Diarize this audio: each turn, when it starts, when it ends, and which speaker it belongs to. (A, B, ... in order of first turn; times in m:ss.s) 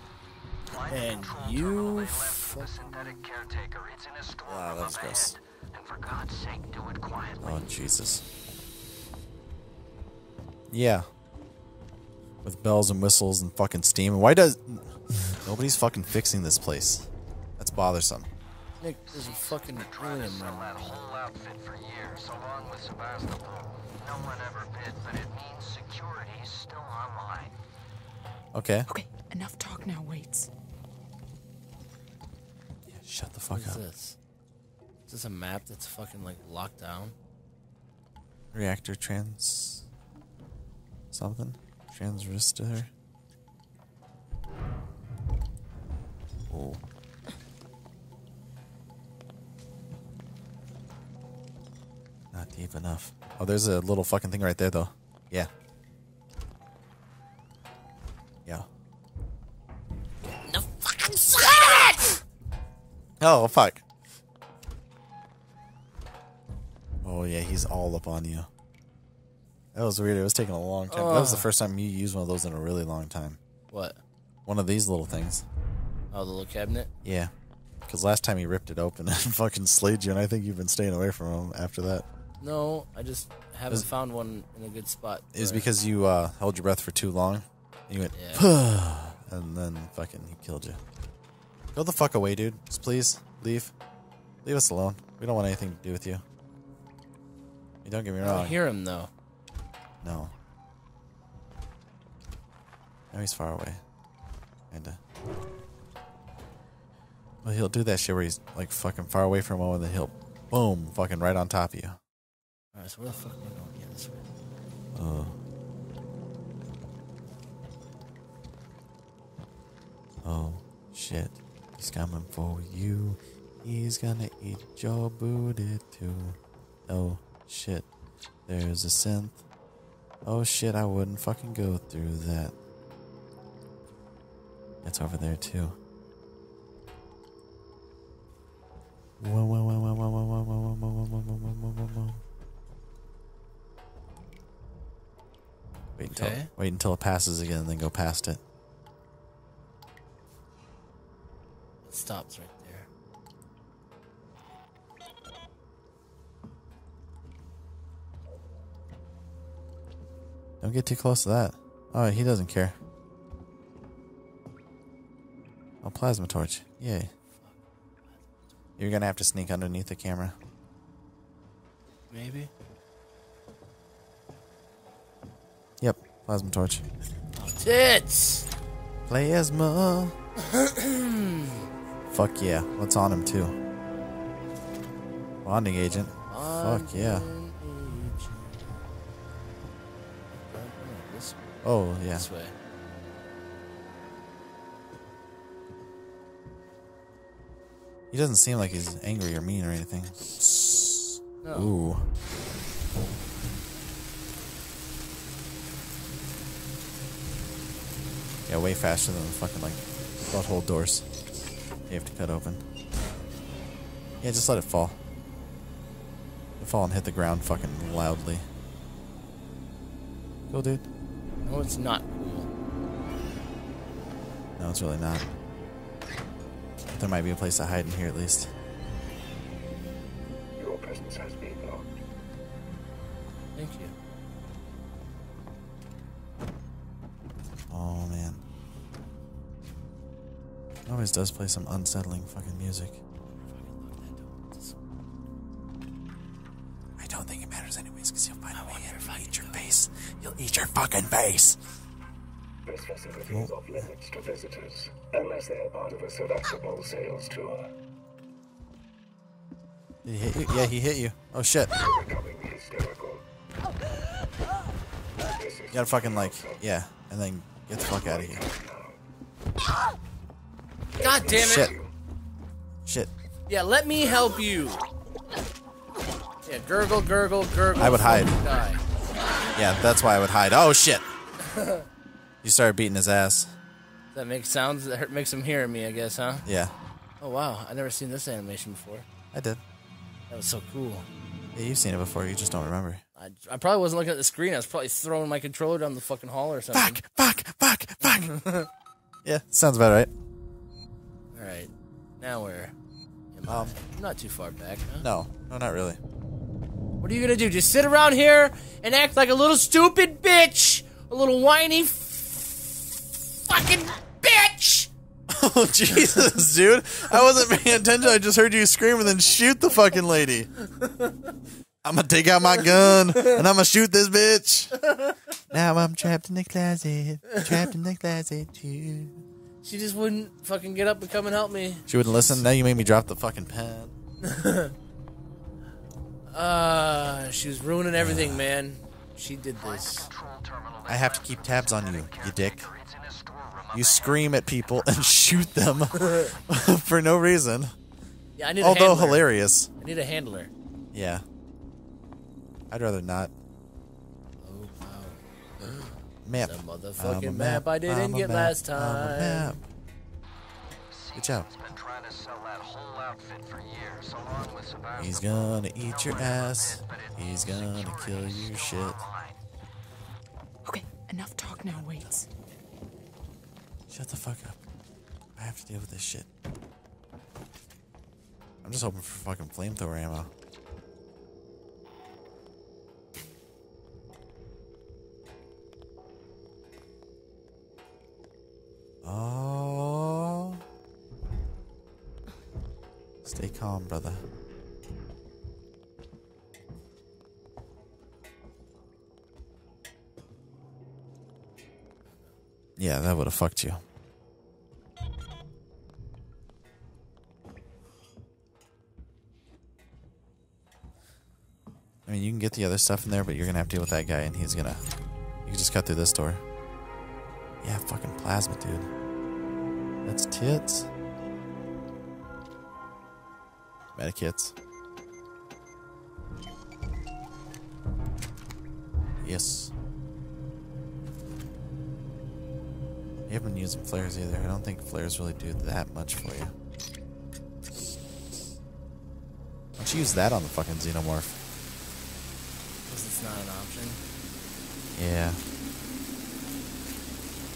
0:00.7-0:07.6 A
0:00.7-0:02.7 B
0:04.4-0:05.3 C
0:07.4-0:08.2 C
0:10.7-0:11.1 C
0:12.4-0:17.1 C
0:17.6-0:18.3 C
0:18.8-0:21.0 B
0:19.1-0:27.6 A
0:28.5-0:28.9 C
0:28.9-0:30.5 D
0:32.9-0:33.8 C
0:33.5-0:34.2 B
0:35.1-0:37.1 B
0:38.5-0:39.9 C
0:41.1-0:42.9 C
0:46.5-0:46.8 C
0:52.3-0:55.5 C
1:00.4-1:02.2 B
1:03.2-1:03.8 C
1:07.0-1:08.5 C
1:09.7-1:13.4 C
1:10.9-1:11.5 B
1:13.7-1:14.0 B
1:14.5-1:15.4 C
1:16.1-1:16.9 B
1:17.0-1:17.3 C
1:17.9-1:22.0 C
1:22.4-1:25.7 B
1:25.3-1:30.8 C
1:28.1-1:28.5 B
1:31.7-1:33.7 C
1:34.4-1:36.2 C
1:37.8-1:38.6 C
1:38.2-1:39.1 B
1:40.0-1:40.3 C
1:43.1-1:43.8 C
1:44.7-1:45.0 C
1:47.4-1:52.0 C
1:52.7-1:54.3 B
1:54.9-1:55.4 C
2:00.2-2:07.9 C
2:08.5-2:09.4 C
2:10.2-2:12.5 C
2:14.8-2:15.8 C
2:19.2-2:22.2 C
2:26.0-2:28.4 C
2:26.1-2:26.5 B
2:31.8-2:32.9 B
2:40.6-2:42.8 C
2:45.8-2:47.1 C
2:47.3-2:48.2 B
2:48.8-2:50.4 C
2:52.1-2:52.5 B
2:55.8-2:56.8 C
2:57.3-2:58.5 B
2:59.1-3:00.1 C
3:00.4-3:01.6 B
3:02.1-3:03.6 C
3:05.4-3:07.3 C
3:05.9-3:08.7 B
3:10.3-3:11.5 B
3:11.6-3:12.3 C
3:12.1-3:12.5 B
3:18.1-3:22.1 C
3:21.4-3:21.7 B
3:28.5-3:31.0 C
3:31.9-3:32.6 C
3:34.2-3:35.0 C
3:36.6-3:38.4 C
3:40.5-3:40.9 C
3:41.4-3:42.5 B
3:44.6-3:45.3 C
3:46.9-3:48.5 C
3:50.9-3:51.7 E
3:53.5-3:53.9 B
3:57.7-3:58.4 C
4:00.9-4:03.0 C
4:03.3-4:04.8 B
4:07.0-4:11.6 C
4:08.5-4:09.6 B
4:13.2-4:13.9 C
4:14.1-4:16.0 E
4:16.8-4:17.5 E
4:20.0-4:21.9 C
4:22.3-4:23.1 E
4:25.7-4:28.5 C
4:31.0-4:31.8 B
4:31.3-4:31.8 C
4:32.8-4:33.1 C
4:33.5-4:34.8 B
4:36.4-4:38.8 B
4:37.8-4:38.4 C
4:39.5-4:41.1 C
4:41.4-4:41.8 B
4:42.4-4:43.5 C
4:44.1-4:46.4 B
4:46.4-4:46.7 C
4:47.2-4:49.0 B
4:49.3-4:49.6 C
4:50.3-4:51.1 B
4:51.5-4:53.0 C
4:53.2-4:57.0 B
4:56.7-4:58.4 C
4:58.0-4:58.7 B
4:59.2-5:00.1 C
5:01.3-5:02.7 B
5:03.3-5:05.1 B
5:03.4-5:03.8 C
5:05.0-5:06.0 C
5:07.0-5:12.8 B
5:13.4-5:14.9 B
5:15.3-5:20.5 C
5:20.8-5:21.1 B
5:21.8-5:24.9 C
5:22.7-5:23.3 B
5:25.5-5:29.2 C
5:29.6-5:32.5 B
5:31.9-5:33.9 C
5:34.2-5:34.7 B
5:36.3-5:40.1 B
5:38.0-5:38.5 C
5:39.6-5:44.2 A
5:40.9-5:42.7 C
5:43.7-5:47.7 C
5:45.9-5:46.3 B
5:48.4-5:50.5 B
5:48.6-5:49.7 C
5:50.9-5:51.2 C
5:52.7-5:53.3 C
5:54.4-5:59.6 B
5:56.2-5:59.7 C
6:00.9-6:05.2 A
6:01.1-6:01.5 C
6:05.0-6:09.0 C
6:05.9-6:09.4 A
6:10.6-6:12.2 D
6:11.5-6:12.1 C
6:13.9-6:14.6 C
6:15.4-6:16.3 C
6:18.6-6:20.3 C
6:29.0-6:30.6 C
6:33.2-6:34.2 C
6:42.8-6:43.8 C
6:52.0-6:54.8 C
6:55.4-6:56.4 C
6:57.6-6:58.9 C
7:00.0-7:00.9 C
7:04.0-7:04.5 C
7:09.2-7:09.7 C
7:13.3-7:16.5 C
7:19.8-7:21.4 C
7:22.8-7:24.0 B
7:24.9-7:25.4 C